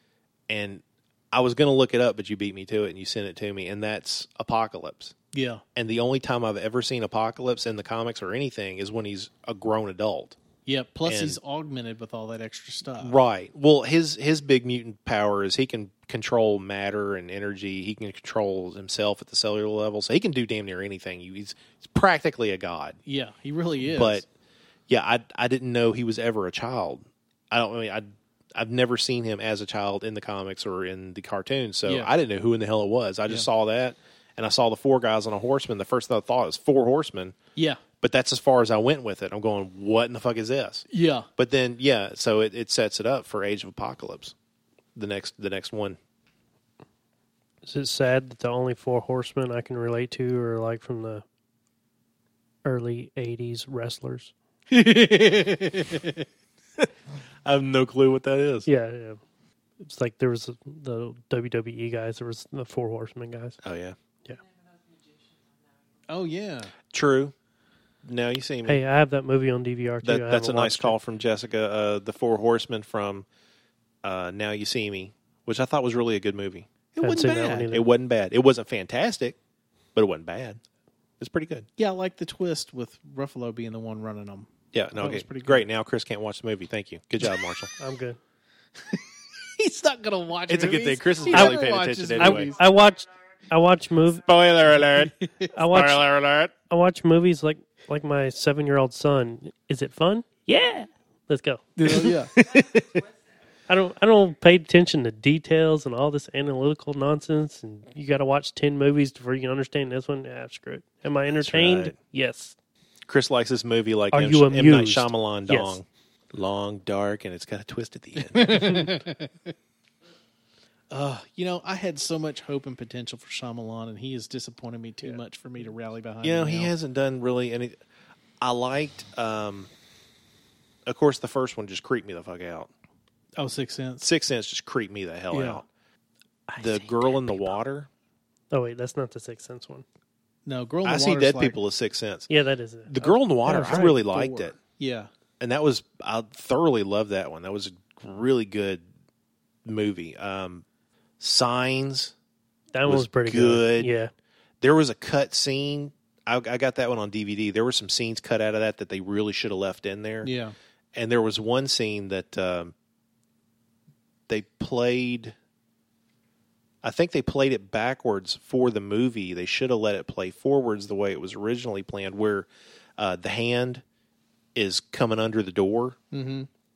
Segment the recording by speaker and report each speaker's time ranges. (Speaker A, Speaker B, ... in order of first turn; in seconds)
Speaker A: 0.5-5.1, 5.8-10.4, 11.1-11.4, 13.0-23.0, 23.9-24.2, 24.9-37.4, 38.0-40.9, 41.4-44.3, 45.0-46.0, 57.4-58.7, 63.6-64.0, 66.9-67.3, 68.0-68.8, 70.0-73.2, 74.0-76.8, 77.7-79.4, 79.9-80.6, 81.2-81.7, 84.7-87.7, 90.5-92.5, 94.2-96.5, 111.4-111.9, 113.1-119.0, 126.2-127.8, 128.4-129.7, 130.8-132.7, 134.0-135.6, 136.6-137.9, 140.8-142.3, 142.9-144.6, 145.4-148.8, 149.6-150.6, 151.2-152.1, 152.9-153.9, 154.6-160.3, 160.9-162.7, 164.3-165.3, 166.8-173.8, 174.5-176.0
Speaker B: 5.3-5.6, 10.7-13.2, 23.1-24.2, 31.8-32.1, 37.5-37.8, 40.9-41.3, 54.7-56.2, 66.1-66.7, 77.0-77.7, 81.8-85.7, 88.8-92.6, 95.2-95.5, 101.8-102.8, 118.2-119.5, 120.9-126.7, 133.4-134.1, 135.3-135.6, 136.5-137.4, 140.4-141.6, 143.4-145.1, 160.2-160.5, 176.1-176.5
Speaker C: 47.6-51.2, 52.6-54.3, 58.6-59.2, 59.8-63.6, 68.7-71.0, 77.0-77.8, 87.8-88.2, 91.3-91.6, 92.1-94.3, 95.5-96.1, 96.7-102.2, 103.7-112.5, 114.1-115.8, 138.5-139.8, 142.3-143.9, 152.7-154.1